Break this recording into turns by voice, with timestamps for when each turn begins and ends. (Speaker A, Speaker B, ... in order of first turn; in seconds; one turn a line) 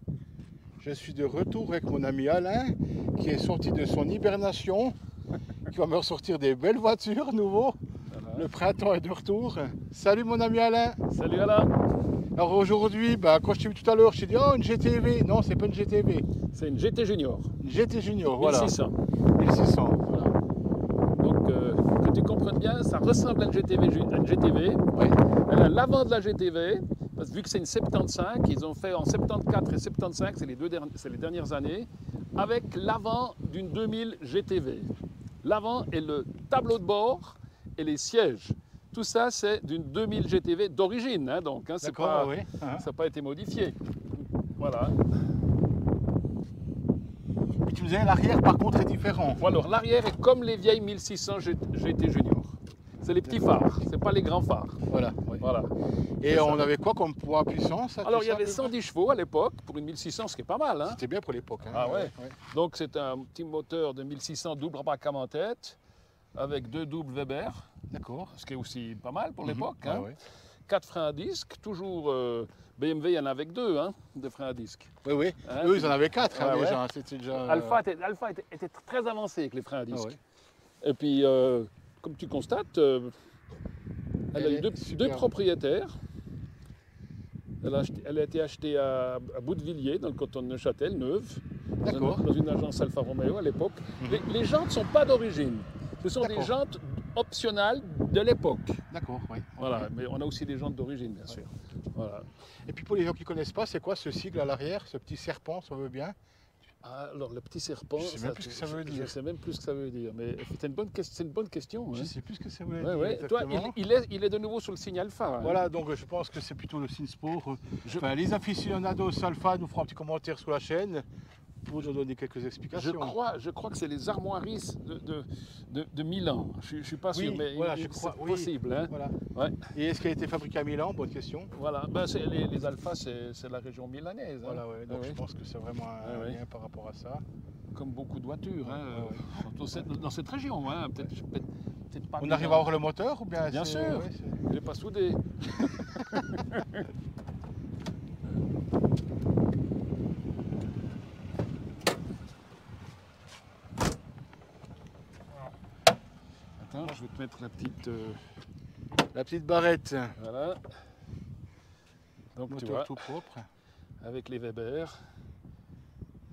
Speaker A: 0.8-5.0
Speaker A: 5.7-7.8
Speaker B: 8.1-8.5
Speaker A: 8.3-11.0
Speaker B: 11.1-11.7
Speaker A: 12.3-16.3
Speaker B: 16.5-17.5
Speaker A: 17.6-18.8
Speaker B: 18.3-18.9
Speaker A: 19.4-20.3
Speaker B: 21.2-43.8
Speaker A: 41.8-42.9
Speaker B: 44.5-45.0
Speaker A: 47.6-49.4
Speaker B: 49.4-54.8
Speaker A: 53.3-53.6
Speaker A: 54.9-55.5
Speaker B: 55.4-55.7
Speaker A: 56.2-58.7
Speaker B: 56.3-56.7
Speaker B: 58.0-61.0
Speaker A: 60.8-62.3
Speaker B: 61.7-65.8
Speaker B: 66.3-67.7
Speaker A: 67.9-68.3
Speaker B: 68.3-70.2
Speaker A: 69.4-70.2
Speaker B: 70.7-74.9
Speaker A: 75.0-77.8
Speaker B: 75.4-80.2
Speaker A: 79.9-80.2
Speaker B: 80.8-83.2
Speaker A: 84.3-85.3
Speaker B: 84.3-85.9
Speaker B: 87.6-98.8
Speaker A: 91.8-92.3
Speaker A: 96.2-96.5
Speaker A: 98.9-99.9
Speaker B: 99.6-102.3
Speaker A: 102.7-106.1
Speaker B: 106.8-112.1
Speaker A: 108.0-109.1
Speaker A: 111.9-113.8
Speaker B: 112.8-115.6
Speaker A: 115.4-121.0
Speaker A: 121.6-123.2
Speaker B: 122.7-129.7
Speaker A: 127.1-129.2
Speaker A: 129.7-131.5
Speaker B: 131.5-135.2
Speaker A: 134.4-137.2
Speaker B: 136.0-136.4
Speaker B: 137.7-142.7
Speaker A: 138.7-139.5
Speaker A: 142.2-144.4
Speaker B: 143.5-146.9
Speaker B: 156.6-158.2
Speaker A: 159.1-160.2
Speaker B: 160.2-160.7
Speaker B: 162.3-163.1
Speaker A: 162.5-163.5
Speaker B: 164.0-165.0